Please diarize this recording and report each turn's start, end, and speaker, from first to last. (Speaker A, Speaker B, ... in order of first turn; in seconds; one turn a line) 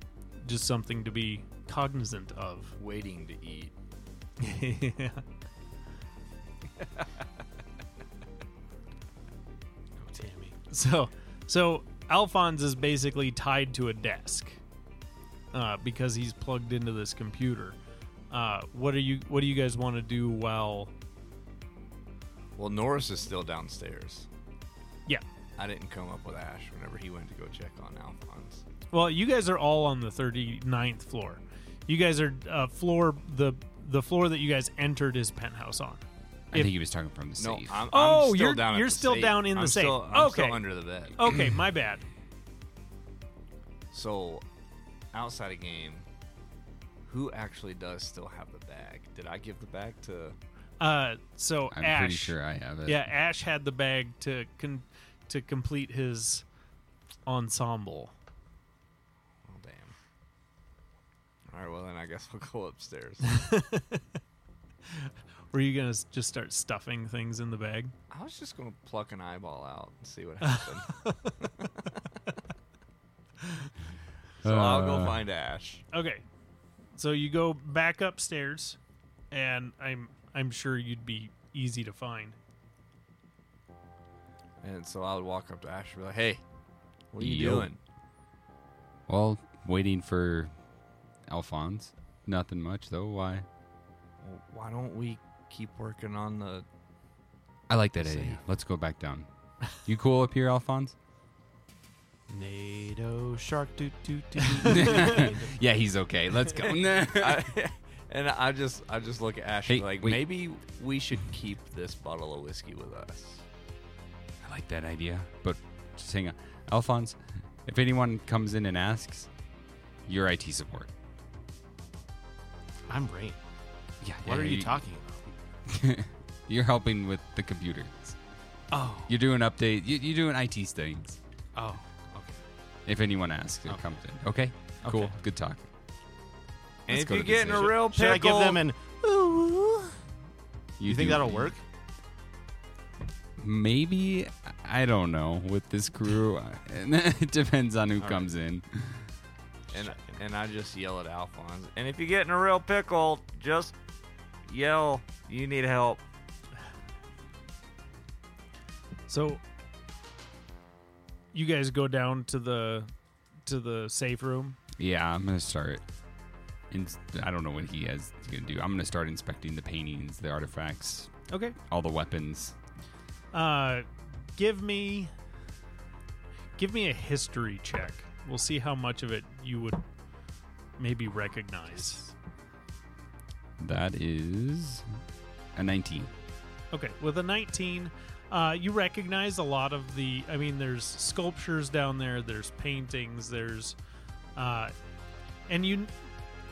Speaker A: 0.4-2.7
Speaker B: 2.8-3.7
Speaker A: 4.4-5.2
Speaker C: 10.0-10.6
Speaker A: 10.7-14.6
Speaker A: 15.5-17.8
Speaker A: 18.3-20.9
Speaker B: 22.6-24.3
Speaker B: 25.6-28.6
Speaker A: 28.9-36.7
Speaker D: 36.5-37.8
Speaker B: 37.4-41.2
Speaker A: 37.9-42.0
Speaker B: 43.9-44.4
Speaker B: 45.1-46.0
Speaker B: 47.1-50.4
Speaker A: 50.8-56.4
Speaker D: 51.7-53.0
Speaker A: 57.3-58.1
Speaker B: 59.4-59.9
Speaker B: 61.5-63.3
Speaker A: 63.2-64.0
Speaker A: 64.9-67.9
Speaker B: 68.1-71.9
Speaker A: 70.4-71.3
Speaker D: 74.4-75.2
Speaker B: 74.4-75.8
Speaker A: 75.9-76.2
Speaker A: 77.0-78.8
Speaker A: 79.3-82.4
Speaker B: 84.6-86.4
Speaker B: 87.1-87.8
Speaker D: 87.2-87.7
Speaker D: 89.1-90.5
Speaker D: 91.3-93.5
Speaker B: 94.2-96.6
Speaker D: 97.7-101.0
Speaker B: 98.0-98.4
Speaker C: 102.3-105.6
Speaker D: 104.6-107.6
Speaker B: 107.0-113.4
Speaker D: 109.7-110.2
Speaker D: 114.4-119.3
Speaker D: 120.0-120.9
Speaker C: 122.9-123.4
Speaker D: 124.0-124.8
Speaker C: 124.2-125.2
Speaker D: 125.7-128.2
Speaker C: 128.7-129.1
Speaker D: 129.1-131.2
Speaker C: 131.5-132.4
Speaker D: 132.9-135.7
Speaker C: 134.8-135.1
Speaker B: 136.9-138.7
Speaker D: 136.9-137.7
Speaker C: 137.6-139.9
Speaker D: 140.8-141.5
Speaker C: 140.8-141.6
Speaker D: 143.4-149.0
Speaker C: 148.0-148.3
Speaker B: 149.7-153.7
Speaker C: 149.7-150.2
Speaker B: 154.5-156.0
Speaker A: 159.1-159.4
Speaker A: 161.3-162.9
Speaker A: 163.4-164.6
Speaker D: 164.8-165.8
Speaker D: 166.7-171.1
Speaker A: 171.3-171.6
Speaker D: 171.6-172.6
Speaker A: 173.3-175.1
Speaker A: 176.6-179.8
Speaker A: 180.8-182.1
Speaker D: 183.6-184.8
Speaker D: 185.6-186.1
Speaker A: 186.7-193.8
Speaker A: 194.3-194.7
Speaker A: 195.5-195.9